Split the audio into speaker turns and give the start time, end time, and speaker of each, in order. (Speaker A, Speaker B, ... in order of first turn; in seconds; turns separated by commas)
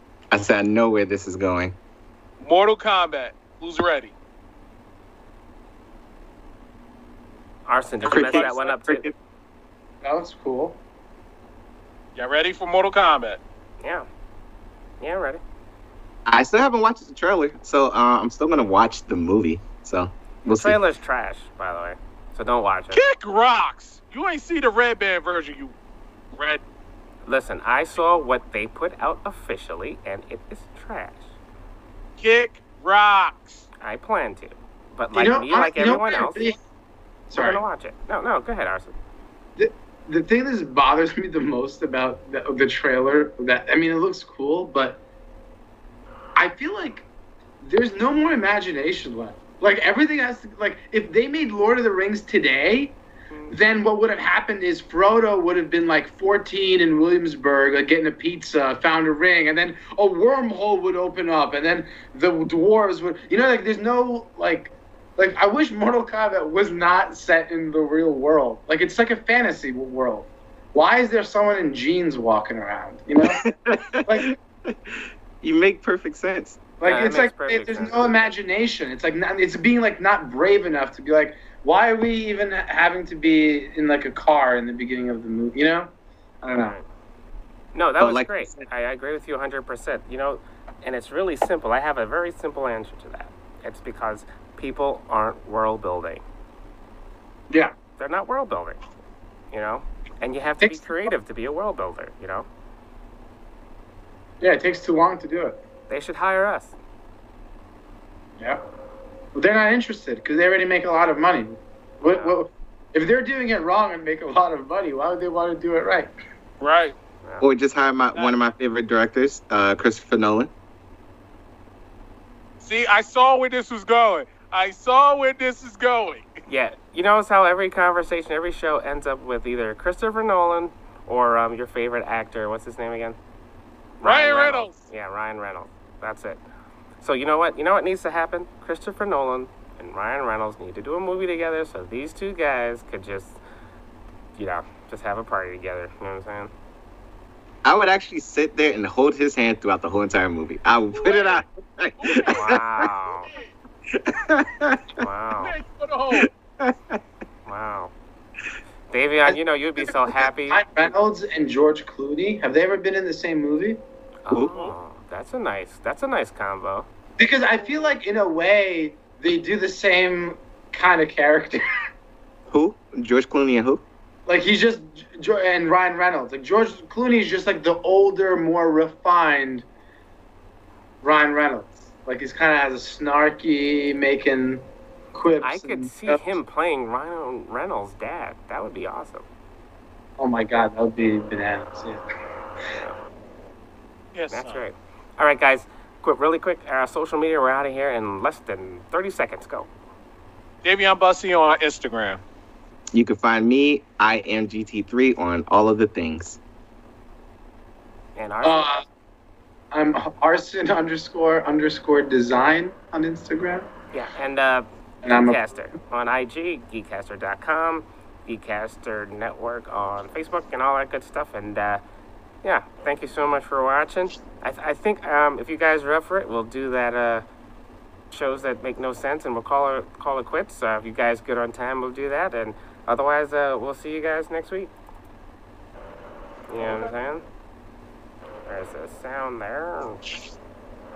Speaker A: 0.3-1.8, Speaker B: 2.4-4.1, Speaker C: 7.7-9.1, Speaker A: 8.0-9.2, Speaker B: 8.1-8.5, Speaker D: 10.0-10.8, Speaker B: 12.2-13.4, Speaker C: 13.8-14.1, Speaker C: 15.0-15.4, Speaker A: 16.3-20.8, Speaker C: 20.5-23.0, Speaker B: 22.9-25.8, Speaker B: 26.4-26.6, Speaker C: 27.3-31.3, Speaker B: 32.2-33.7, Speaker C: 33.8-36.5, Speaker D: 35.1-36.6, Speaker D: 37.3-37.6, Speaker C: 37.3-39.0, Speaker D: 39.6-45.0, Speaker D: 46.4-47.1, Speaker D: 47.6-53.0, Speaker C: 53.3-53.6, Speaker D: 53.5-73.4, Speaker A: 73.2-76.6, Speaker D: 74.1-74.4, Speaker D: 76.8-86.8, Speaker C: 76.8-78.1, Speaker C: 86.6-86.8, Speaker C: 87.7-96.2, Speaker A: 88.0-88.7, Speaker C: 98.0-98.8, Speaker C: 99.5-102.5, Speaker D: 100.6-101.1, Speaker D: 104.4-105.6, Speaker C: 105.9-106.8, Speaker D: 109.3-116.1, Speaker C: 112.0-112.4, Speaker B: 116.6-117.0, Speaker A: 117.4-120.5, Speaker B: 122.6-126.4, Speaker C: 126.5-133.2, Speaker C: 134.0-136.4, Speaker B: 134.0-134.8, Speaker C: 137.0-143.4, Speaker C: 144.4-146.5, Speaker A: 147.7-152.9, Speaker B: 150.9-151.4, Speaker B: 152.0-153.5, Speaker C: 152.3-153.3, Speaker A: 153.9-155.0, Speaker C: 155.0-155.6, Speaker B: 155.4-156.3, Speaker A: 156.1-157.0, Speaker C: 157.5-157.9, Speaker C: 158.9-160.9, Speaker D: 160.5-163.8, Speaker C: 164.2-166.9, Speaker B: 164.4-164.8, Speaker D: 167.2-171.6, Speaker A: 172.5-173.8, Speaker D: 174.3-179.7, Speaker D: 181.0-186.2, Speaker C: 185.4-189.3, Speaker D: 190.2-192.0, Speaker C: 192.7-193.0, Speaker B: 194.1-194.6, Speaker C: 194.3-199.7, Speaker B: 200.6-202.2, Speaker A: 202.9-206.4, Speaker C: 208.2-208.7, Speaker D: 208.4-208.8, Speaker D: 209.7-213.7, Speaker C: 213.9-221.8, Speaker D: 215.0-215.4, Speaker C: 222.4-227.3, Speaker C: 228.1-234.7, Speaker C: 236.5-237.2, Speaker B: 236.6-236.9, Speaker C: 238.5-240.1